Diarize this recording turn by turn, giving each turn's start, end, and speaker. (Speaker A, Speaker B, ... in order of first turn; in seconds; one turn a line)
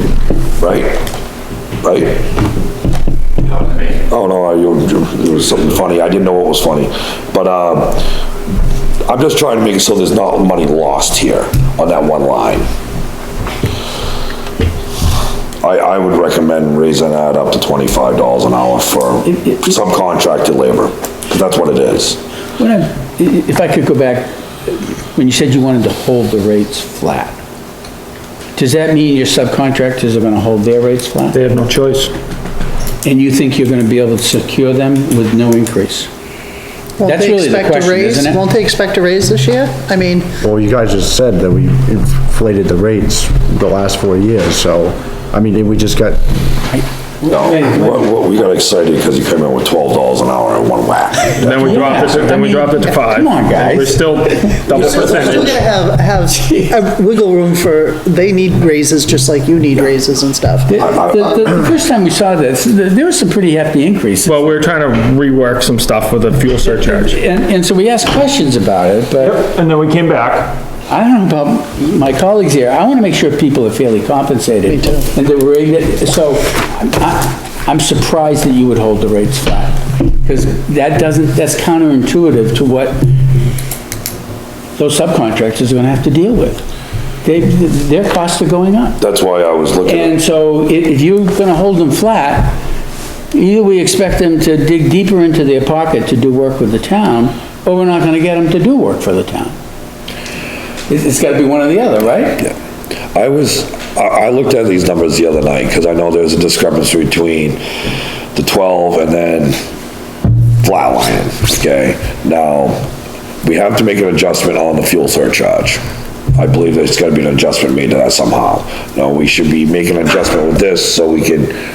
Speaker A: 0.6-1.0
Speaker A: 1.8-2.2
Speaker A: 4.0-8.1
Speaker A: 9.1-12.7
Speaker A: 15.6-22.2
Speaker B: 19.3-19.7
Speaker B: 22.6-27.4
Speaker B: 28.6-31.4
Speaker C: 31.3-32.1
Speaker B: 33.0-36.1
Speaker D: 37.0-40.3
Speaker B: 37.0-38.5
Speaker E: 40.4-46.2
Speaker B: 46.7-48.1
Speaker A: 47.2-51.7
Speaker C: 51.4-55.6
Speaker B: 51.5-54.5
Speaker D: 54.7-60.8
Speaker B: 60.7-64.5
Speaker A: 60.8-61.3
Speaker C: 64.2-67.2
Speaker B: 66.6-69.4
Speaker C: 69.2-70.6
Speaker B: 70.9-83.1
Speaker D: 74.7-75.1
Speaker B: 84.8-86.6
Speaker B: 87.2-89.0
Speaker A: 89.0-90.2
Speaker B: 89.8-92.6
Speaker B: 93.3-99.5
Speaker B: 100.9-102.4
Speaker A: 103.1-107.6
Speaker A: 108.3-109.5
Speaker A: 110.6-112.8
Speaker A: 113.4-115.8
Speaker A: 116.3-121.5